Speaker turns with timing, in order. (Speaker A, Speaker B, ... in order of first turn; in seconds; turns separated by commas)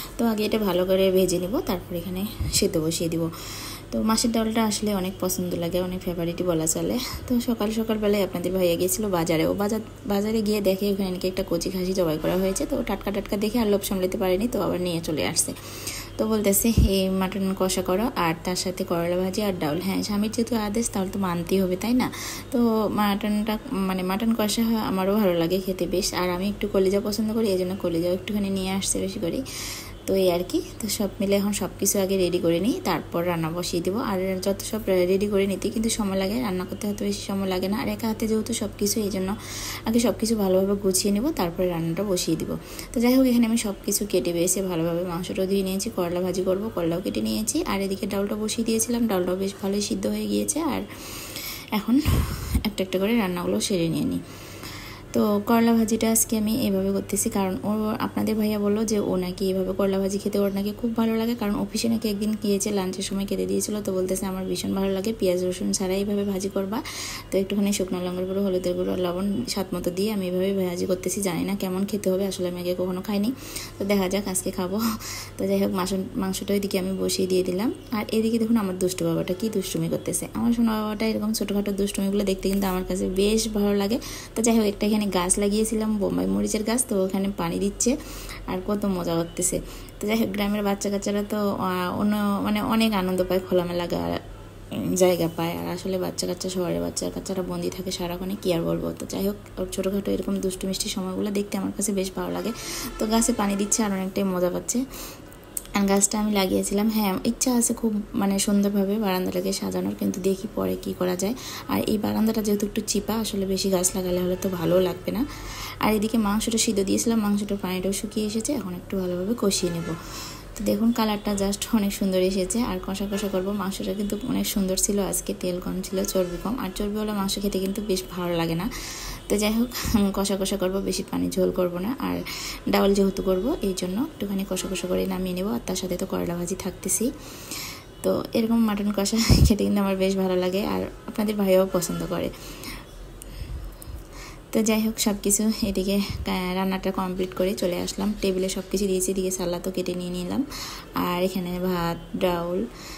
Speaker A: 0.2-3.3, Speaker A: 3.9-15.6, Speaker A: 16.2-29.4, Speaker A: 30.1-39.4, Speaker A: 39.9-54.2, Speaker A: 55.1-74.8, Speaker A: 75.4-88.0, Speaker A: 88.5-94.2, Speaker A: 95.0-104.8, Speaker A: 105.8-115.2, Speaker A: 115.8-120.0, Speaker A: 120.6-128.7, Speaker A: 129.3-142.3, Speaker A: 144.5-150.4, Speaker A: 151.0-152.6